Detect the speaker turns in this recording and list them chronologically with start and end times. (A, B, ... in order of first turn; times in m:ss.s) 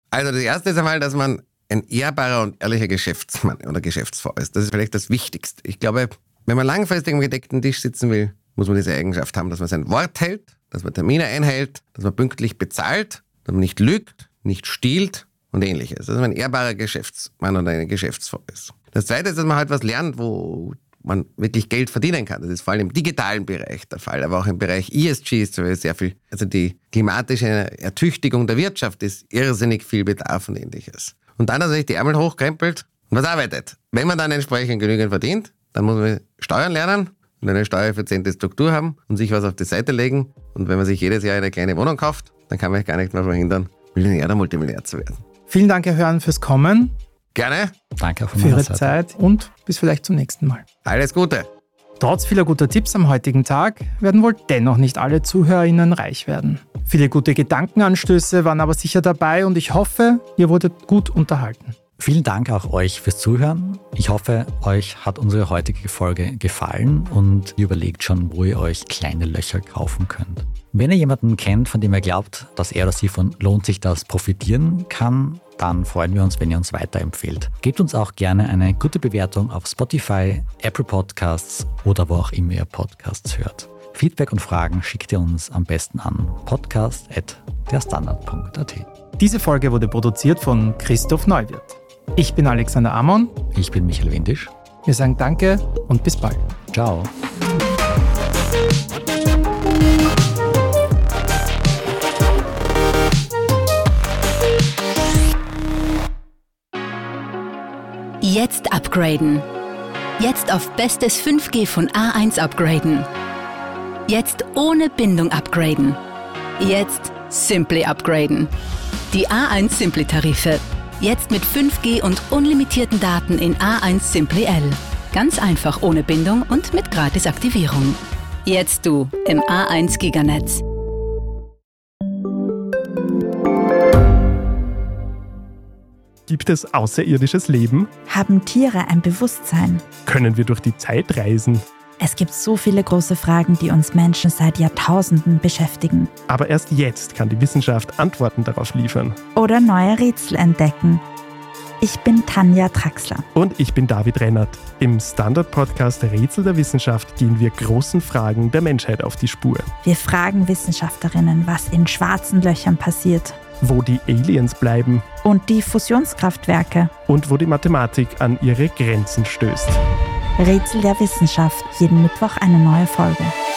0:00.1-0:45.2 A
0:45.5-0:46.9 B
0:47.3-0:47.7 A
0:48.0-0:49.0 C
0:48.4-0:50.6 B
0:50.8-0:51.5 A
0:52.0-1:01.8 B
1:02.0-1:28.9 C
1:29.2-1:33.3 B
1:33.5-1:34.5 C
1:34.8-1:36.4 B
1:36.7-1:37.1 C
1:48.2-1:49.4 D
1:50.2-1:53.1 D
1:54.1-1:56.0 D
1:56.6-1:58.5 D
1:59.1-2:10.6 D
2:16.3-2:17.9 E
2:18.1-2:19.9 F
2:20.0-2:21.6 E
2:22.0-2:26.1 F
2:26.3-2:29.2 E
2:29.3-2:31.0 F
2:31.8-2:33.2 F
2:33.4-2:39.7 E
2:39.8-2:43.4 F
2:43.6-2:45.0 E
2:45.2-2:46.9 F
2:47.1-2:49.8 E
2:50.4-2:53.3 F